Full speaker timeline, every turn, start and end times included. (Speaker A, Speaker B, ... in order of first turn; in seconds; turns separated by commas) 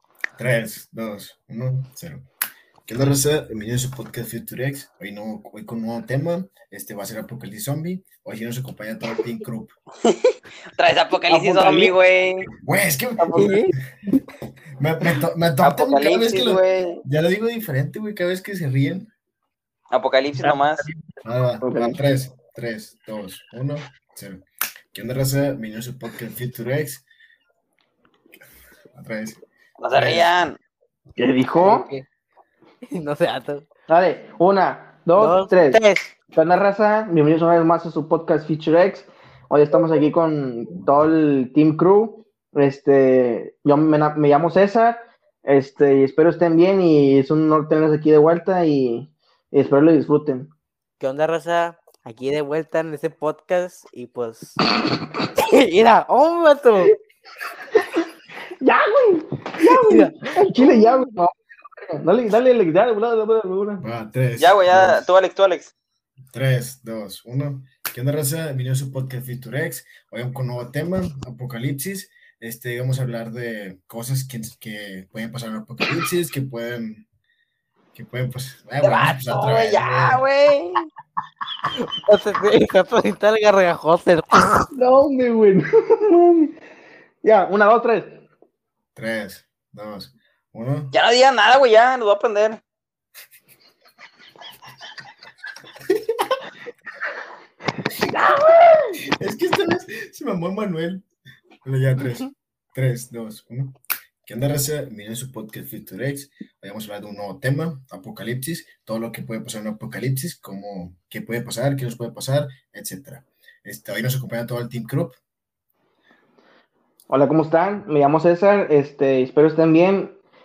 Speaker A: 0.4-2.3, Speaker A: 2.9-9.8, Speaker B: 10.8-12.5, Speaker C: 11.3-11.9, Speaker A: 12.6-13.6, Speaker C: 13.2-13.5, Speaker D: 13.3-13.7, Speaker A: 14.8-19.1, Speaker B: 15.6-17.0, Speaker B: 19.9-20.9, Speaker C: 20.4-21.0, Speaker A: 21.2-27.0, Speaker C: 21.6-22.0, Speaker A: 28.9-29.4, Speaker B: 29.8-30.6, Speaker A: 29.9-30.3, Speaker C: 31.2-31.9, Speaker D: 31.5-32.0, Speaker D: 32.9-33.6, Speaker C: 33.9-35.8, Speaker D: 35.2-36.1, Speaker C: 36.3-50.5, Speaker D: 51.0-54.6, Speaker D: 55.4-56.9, Speaker C: 58.6-63.8, Speaker D: 59.6-61.0, Speaker A: 63.8-65.1, Speaker B: 64.4-65.7, Speaker A: 66.3-77.0, Speaker A: 77.9-80.2, Speaker D: 78.8-80.6, Speaker B: 80.1-80.4, Speaker D: 81.9-84.7, Speaker C: 84.7-86.5, Speaker C: 87.2-88.2, Speaker A: 88.9-90.9, Speaker B: 90.9-92.6, Speaker C: 98.0-99.0, Speaker A: 99.1-101.1, Speaker A: 101.6-115.2, Speaker C: 117.1-120.2